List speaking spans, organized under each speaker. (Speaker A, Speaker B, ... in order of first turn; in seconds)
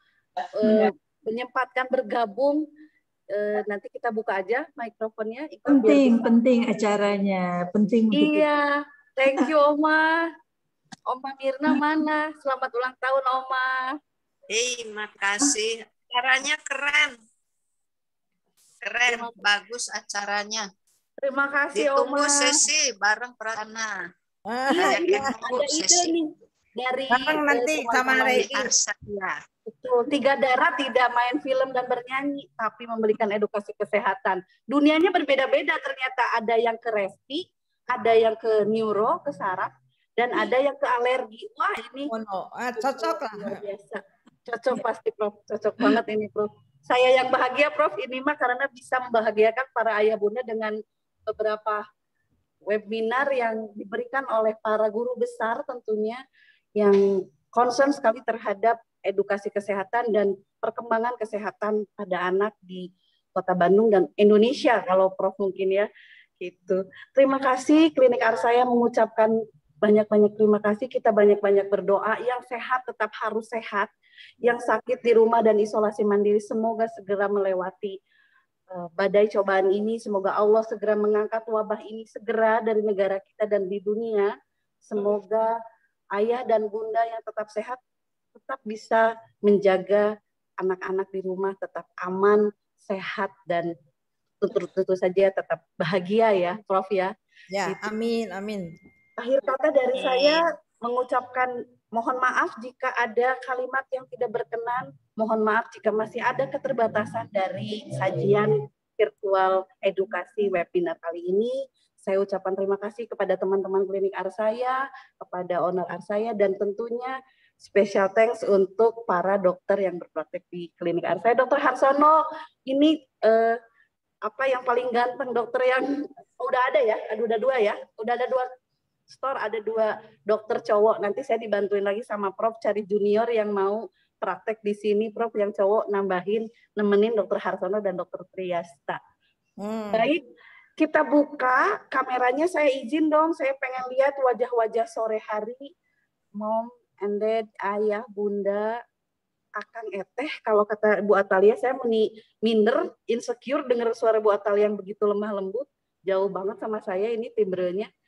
Speaker A: 0.6-2.6, 3.3-6.4, 8.1-10.3, 11.1-13.8, 19.1-19.4, 21.2-22.7, 24.7-28.5, 29.7-42.1, 42.8-50.8, 51.3-51.9, 52.7-56.2, 57.5-65.9, 66.4-73.9, 74.4-78.0, 78.7-84.3, 84.8-85.5, 86.2-87.8, 88.3-90.1, 90.6-93.7, 94.4-97.1, 99.2-123.6, 124.2-128.5, 129.1-139.0, 139.9-140.2, 140.8-145.7, 146.4-148.8, 149.6-157.9
Speaker B: 5.8-8.3
Speaker C: 14.5-17.2, 18.8-20.7, 21.7-24.1, 24.7-26.1, 28.4-29.4
Speaker D: 24.5-25.4, 27.1-28.7, 42.1-43.6, 97.5-98.7, 139.6-140.1